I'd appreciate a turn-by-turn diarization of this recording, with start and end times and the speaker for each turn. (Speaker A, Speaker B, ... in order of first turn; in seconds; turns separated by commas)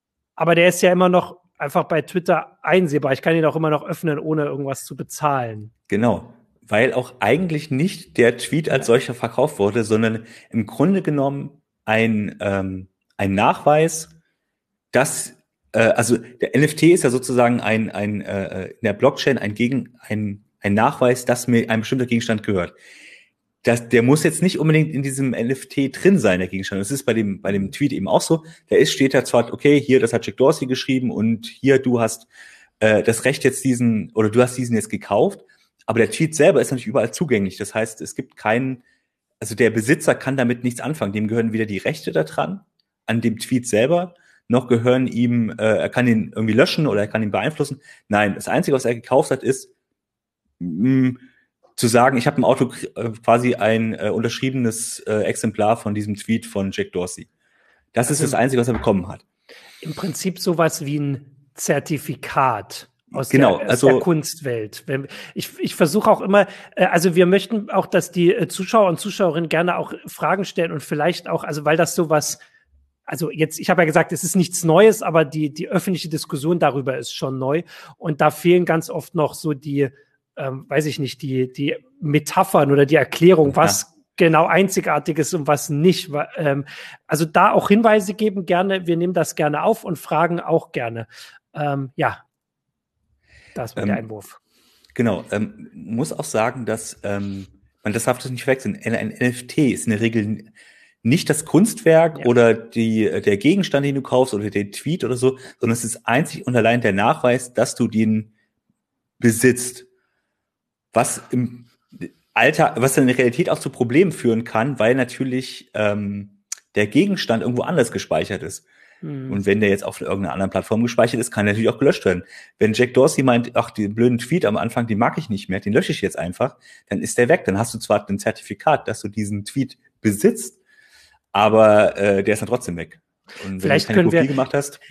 Speaker A: 0.4-5.7, Speaker B: 5.9-14.1, Speaker B: 14.9-22.8, Speaker B: 23.6-32.3, Speaker B: 32.8-38.8, Speaker B: 39.4-49.7, Speaker B: 50.6-51.2, Speaker B: 51.8-57.3, Speaker B: 57.9-59.2, Speaker A: 58.1-58.4, Speaker A: 59.8-72.4, Speaker B: 63.1-64.0, Speaker A: 73.1-92.2, Speaker B: 83.5-83.8, Speaker A: 93.5-94.4, Speaker B: 93.8-94.0, Speaker B: 94.9-100.5, Speaker B: 101.0-108.3, Speaker B: 109.2-109.9, Speaker B: 110.9-118.6, Speaker A: 119.0-119.4, Speaker B: 119.3-130.6, Speaker B: 131.3-134.8, Speaker A: 133.6-134.3